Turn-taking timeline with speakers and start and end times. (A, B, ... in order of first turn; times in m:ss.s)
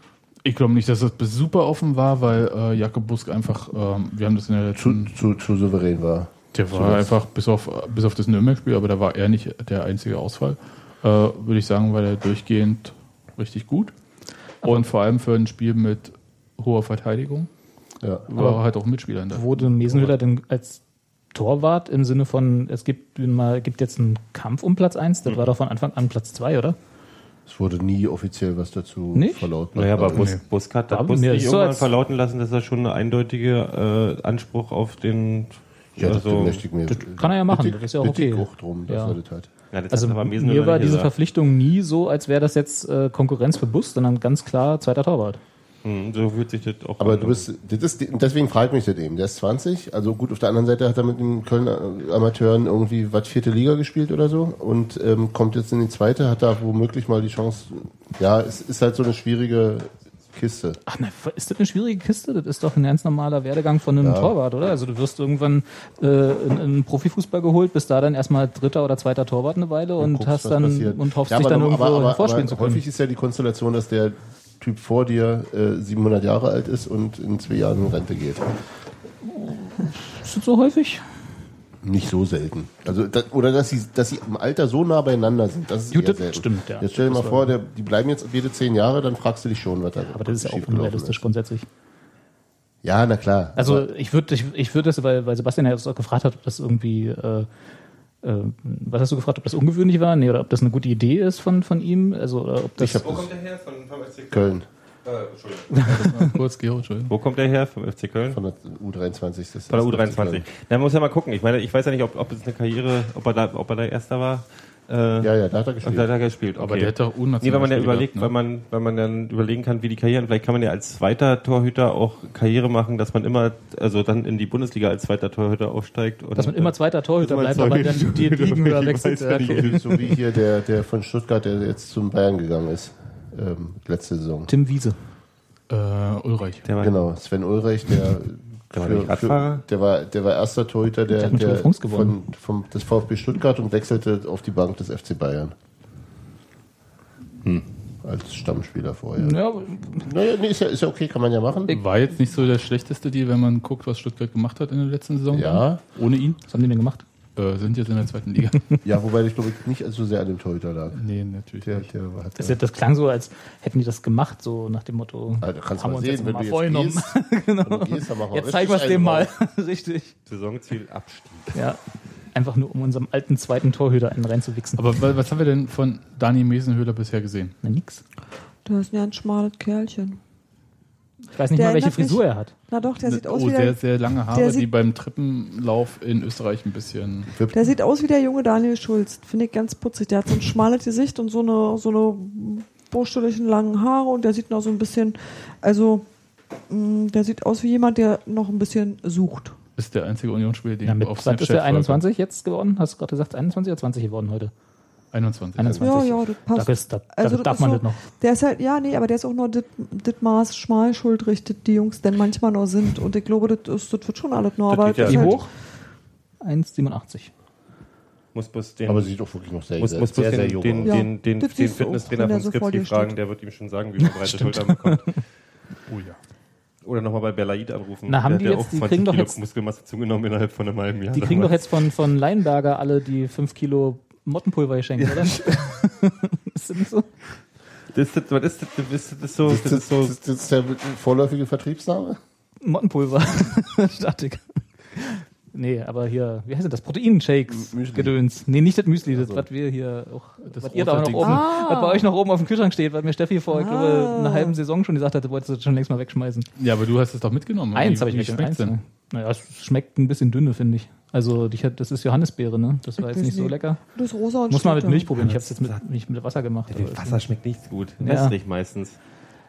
0:00.4-0:05.1 A
0:04.8-0:07.1 B
0:06.5-0:14.0 A
0:14.6-0:17.5 A
0:18.3-0:20.1 A
0:19.3-0:20.8 C
0:21.3-0:26.8 C
0:27.4-0:30.3 B
0:29.1-0:29.5 C
0:29.7-0:36.6 D
0:30.1-0:30.4 A
0:30.9-0:31.9 C
0:36.0-0:39.5 B
0:36.9-0:39.2 C
0:39.7-0:41.1 D
0:39.9-0:45.4 C
0:45.8-0:47.4 D
0:47.0-1:00.8 B
1:00.9-1:12.8 C
1:04.0-1:04.3 B
1:10.0-1:18.6 B
1:19.2-1:21.0 C
1:21.8-1:31.2 B
1:25.9-1:27.5 C
1:30.1-1:31.7 C
1:32.8-1:33.9 B
1:33.6-1:37.5 C
1:38.2-1:43.1 C
1:42.8-1:43.3 B
1:42.9-1:44.5 D
1:44.3-1:44.6 B
1:45.0-1:45.8 D
1:45.7-1:46.3 C
1:45.8-1:47.1 A
1:47.1-1:48.4 D
1:48.3-1:50.4 B
1:49.7-1:55.3 D
1:55.2-1:56.1 B
1:55.8-2:10.2 D
1:56.6-1:58.3 A
2:06.4-2:09.8 C
2:09.5-2:14.5 B
2:14.5-2:15.0 C
2:15.7-2:16.7 A
2:16.6-2:17.0 D
2:16.8-2:25.5 B
2:18.7-2:19.6 D
2:21.1-2:22.2 C
2:28.0-2:29.4 B
2:29.2-2:30.1 C
2:29.9-2:31.8 B
2:31.7-2:36.4 A
2:35.3-2:35.8 B
2:36.5-2:37.0 C
2:37.4-2:38.8 A
2:38.8-2:41.0 B
2:40.9-2:41.9 A
2:41.6-2:42.6 B
2:42.4-2:50.1 C
2:45.4-2:49.3 B
2:50.2-2:51.5 D
2:51.5-2:51.8 C
2:52.3-2:54.9 C
2:54.8-2:57.5 A
2:57.6-2:58.0 C
2:58.6-3:00.2 E
3:01.3-3:02.5 C
3:01.5-3:04.7 E
3:03.0-3:07.3 A
3:07.3-3:07.7 B
3:07.5-3:16.0 E
3:16.7-3:19.6 E
3:19.8-3:22.0 A
3:20.8-3:24.5 C
3:25.1-3:25.9 A
3:25.6-3:28.0 C
3:25.8-3:35.4 E
3:34.7-3:35.4 D
3:35.0-3:35.5 C
3:36.4-3:37.3 C
3:38.3-3:39.1 D
3:38.8-3:41.1 B
3:39.8-3:45.2 D
3:40.8-3:43.1 E
3:44.0-3:45.2 C
3:45.9-3:46.2 A
3:46.8-3:51.8 D
3:48.1-3:49.4 C
3:51.1-3:57.1 C
3:55.0-3:55.6 D
3:57.9-4:00.2 D
3:59.4-4:02.2 B
4:02.6-4:16.5 C
4:07.5-4:08.2 B
4:09.1-4:09.4 B
4:10.4-4:11.6 A
4:11.2-4:12.1 E
4:13.5-4:14.6 E
4:16.6-4:18.7 A
4:17.7-4:23.8 C
4:23.0-4:25.2 E
4:24.5-4:27.3 C
4:25.4-4:25.8 D
4:26.7-4:29.0 D
4:28.0-4:28.3 C